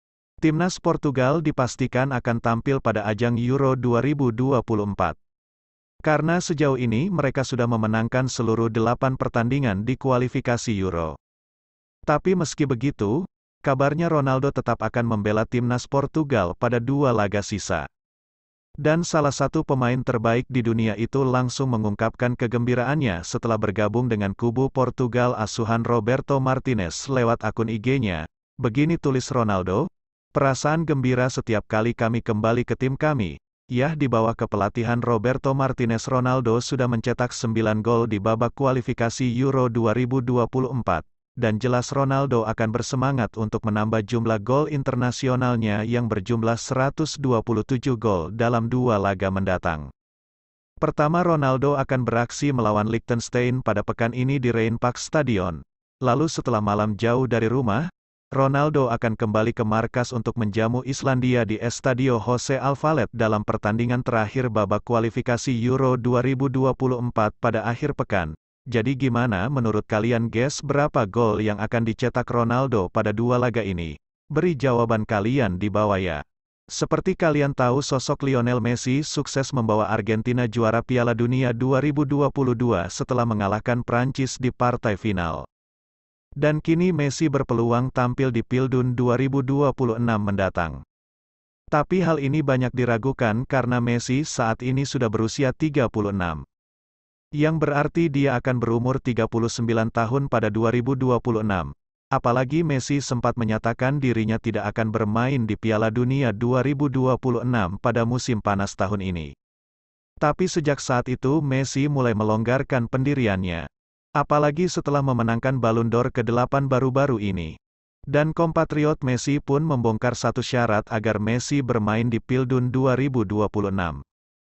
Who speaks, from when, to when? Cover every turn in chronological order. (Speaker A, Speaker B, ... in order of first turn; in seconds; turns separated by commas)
Speaker A: 0.4-5.2, Speaker A: 6.0-11.2, Speaker A: 12.1-17.9, Speaker A: 18.8-49.9, Speaker A: 50.8-85.5, Speaker A: 86.4-90.8, Speaker A: 91.7-96.4, Speaker A: 97.4-109.3, Speaker A: 110.2-113.7, Speaker A: 114.2-117.6, Speaker A: 118.1-124.0